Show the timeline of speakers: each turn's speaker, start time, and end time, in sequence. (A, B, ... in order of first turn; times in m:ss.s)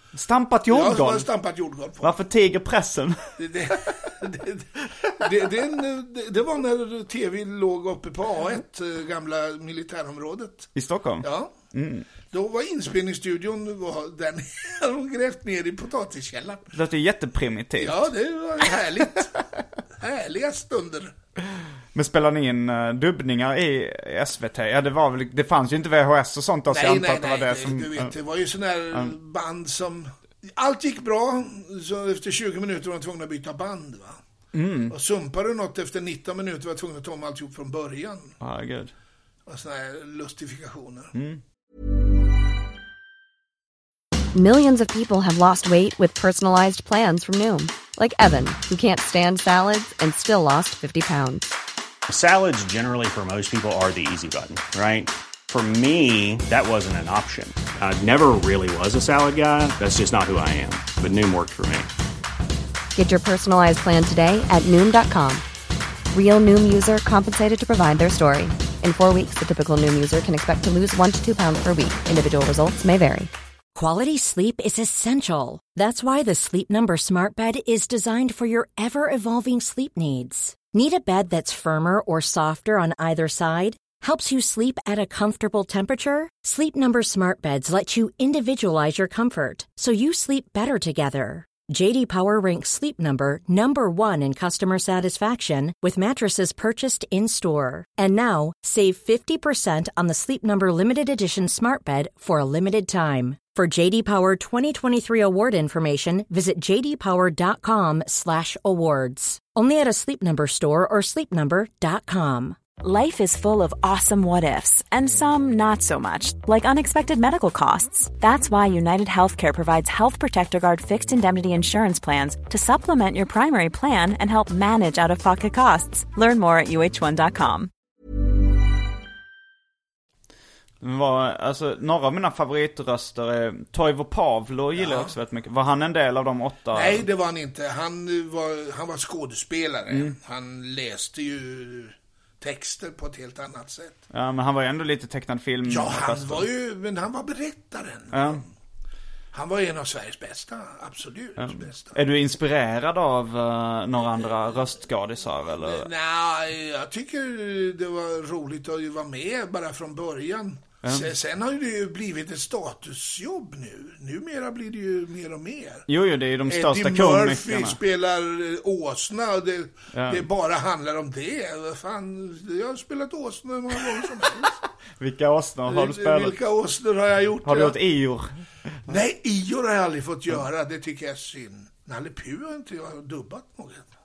0:00.1-0:01.3 A
0:00.7-0:02.2 B
0:02.0-0:03.3 A
0:03.4-0:10.7 B
0:10.8-0:12.0 A
0:11.2-0:11.5 B
0:12.3-0:16.6 B
0:16.7-0:18.1 A
0:17.8-0:19.4 B
0:20.0-0:21.1 B
0:21.9-0:28.1 A
0:26.7-0:34.2 B
0:34.5-0:34.9 A
0:34.9-0:38.3 B
0:38.4-0:38.9 A
0:39.5-0:41.1 B
0:41.1-0:41.4 A
0:44.3-0:51.6 C
0:52.1-1:01.9 D
1:02.9-1:05.4 C
1:06.1-1:13.3 C
1:13.7-1:52.6 E
1:52.8-2:07.7 F
2:10.8-2:17.0 A
2:14.7-2:15.1 B
2:16.7-2:24.0 B
2:19.9-2:20.2 A
2:24.1-2:26.5 A
2:25.6-2:28.5 B
2:28.1-2:28.4 A
2:29.3-2:32.0 B
2:31.4-2:35.9 A
2:35.6-2:45.9 B
2:40.8-2:41.1 A
2:45.9-2:47.8 A
2:46.5-2:54.6 B
2:49.9-2:50.2 A
2:55.0-2:56.3 A
2:55.7-2:57.8 B
2:57.4-2:58.3 A
2:58.9-3:03.8 B